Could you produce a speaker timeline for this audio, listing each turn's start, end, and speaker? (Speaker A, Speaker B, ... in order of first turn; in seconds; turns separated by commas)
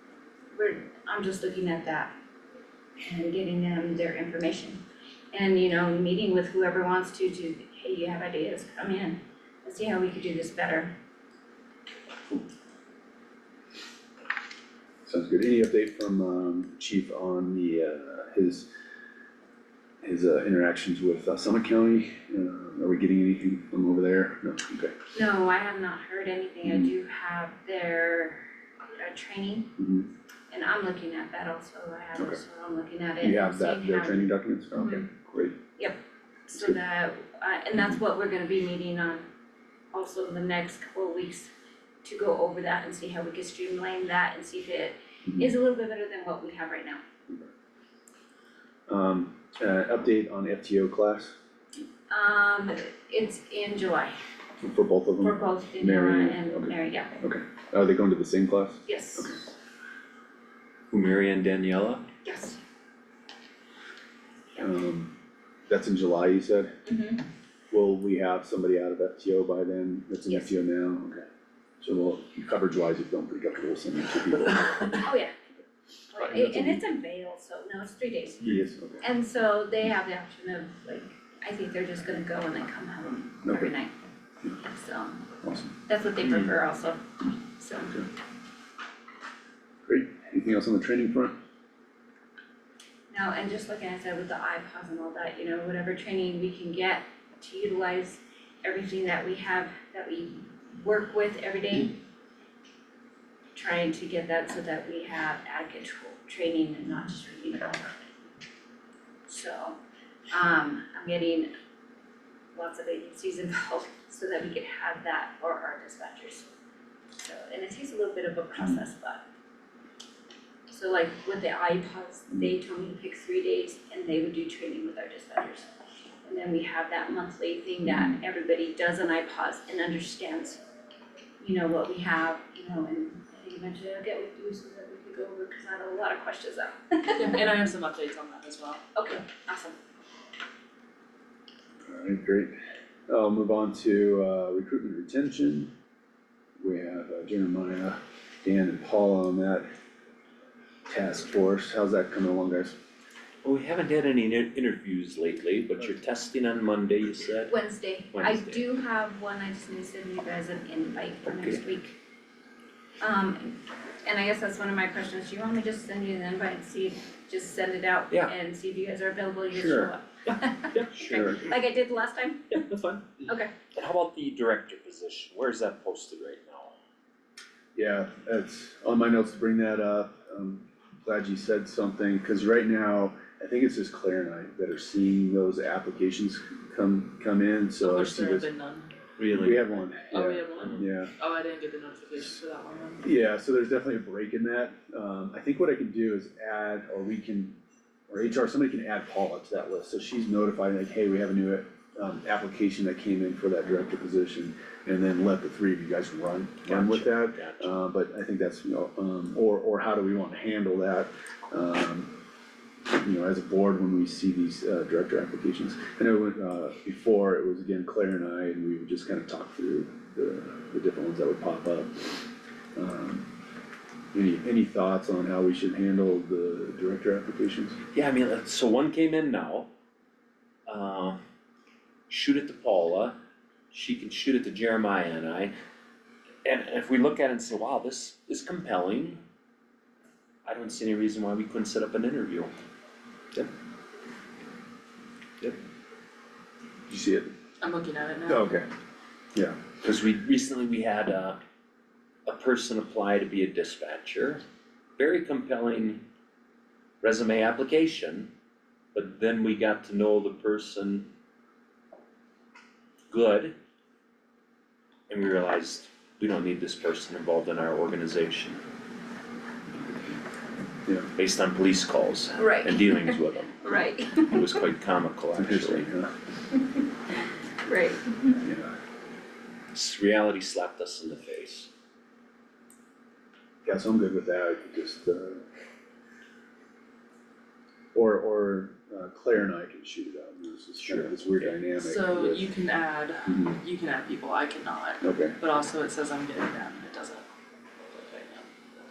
Speaker A: 0.5-2.1, Speaker A: 3.0-10.9, Speaker B: 15.1-18.7, Speaker B: 20.0-24.9, Speaker A: 25.1-29.8, Speaker B: 26.6-26.9, Speaker B: 29.8-30.1, Speaker A: 30.5-35.1, Speaker B: 33.2-35.6, Speaker A: 35.8-39.3, Speaker A: 39.9-41.5, Speaker A: 42.0-47.0, Speaker B: 48.9-51.3, Speaker A: 52.1-54.1, Speaker B: 54.6-59.4, Speaker A: 55.2-57.2, Speaker A: 58.9-59.4, Speaker C: 60.9-62.0, Speaker A: 62.2-62.6, Speaker B: 64.6-65.1, Speaker B: 65.7-66.7, Speaker A: 66.8-67.3, Speaker B: 67.7-71.3, Speaker A: 70.2-70.5, Speaker B: 71.8-75.1, Speaker A: 75.0-75.3, Speaker A: 76.1-83.9, Speaker B: 76.2-76.8, Speaker B: 78.4-79.0, Speaker B: 83.4-83.7, Speaker A: 84.6-85.2, Speaker B: 85.4-85.7, Speaker A: 85.9-88.1, Speaker B: 89.8-91.3, Speaker A: 93.1-102.0, Speaker A: 103.5-108.1, Speaker A: 109.3-109.8, Speaker A: 110.3-111.5, Speaker A: 112.5-116.5, Speaker A: 117.2-119.2, Speaker A: 120.7-125.7, Speaker A: 126.2-130.6, Speaker B: 127.9-128.2, Speaker A: 131.4-137.4, Speaker D: 137.2-138.8, Speaker A: 138.9-139.8, Speaker B: 141.8-142.6, Speaker B: 143.1-145.7, Speaker B: 146.6-149.7, Speaker B: 150.9-152.8, Speaker C: 153.4-157.6, Speaker A: 157.5-162.0, Speaker C: 158.1-158.6, Speaker C: 161.3-161.6, Speaker A: 163.0-172.6, Speaker C: 169.5-171.5, Speaker C: 172.5-176.7, Speaker A: 173.2-173.5, Speaker B: 177.8-188.5, Speaker D: 187.8-188.9, Speaker C: 189.2-189.8, Speaker B: 189.3-191.1, Speaker D: 190.1-193.0, Speaker B: 193.0-212.1, Speaker C: 206.7-207.7, Speaker B: 212.9-222.2, Speaker B: 222.8-223.3, Speaker B: 224.1-227.8, Speaker C: 227.9-229.7, Speaker C: 230.7-231.2, Speaker C: 232.1-233.2, Speaker C: 233.7-235.5, Speaker C: 236.4-239.2, Speaker C: 240.4-242.5, Speaker B: 246.9-247.3, Speaker D: 247.6-248.4, Speaker B: 248.3-248.7, Speaker B: 249.3-249.6, Speaker C: 249.8-251.4, Speaker C: 252.3-254.4, Speaker C: 255.0-256.0, Speaker C: 257.0-258.3, Speaker C: 258.9-261.1, Speaker C: 263.1-263.5, Speaker C: 265.1-268.6, Speaker C: 271.2-273.6, Speaker A: 272.4-274.6, Speaker C: 274.2-275.9, Speaker B: 275.4-276.1, Speaker A: 277.6-278.4, Speaker B: 278.4-278.8, Speaker C: 279.7-281.7, Speaker B: 283.6-285.4, Speaker B: 287.9-292.5, Speaker C: 290.8-291.5, Speaker D: 291.8-297.3, Speaker B: 293.3-293.6, Speaker B: 295.0-295.4, Speaker D: 297.9-298.5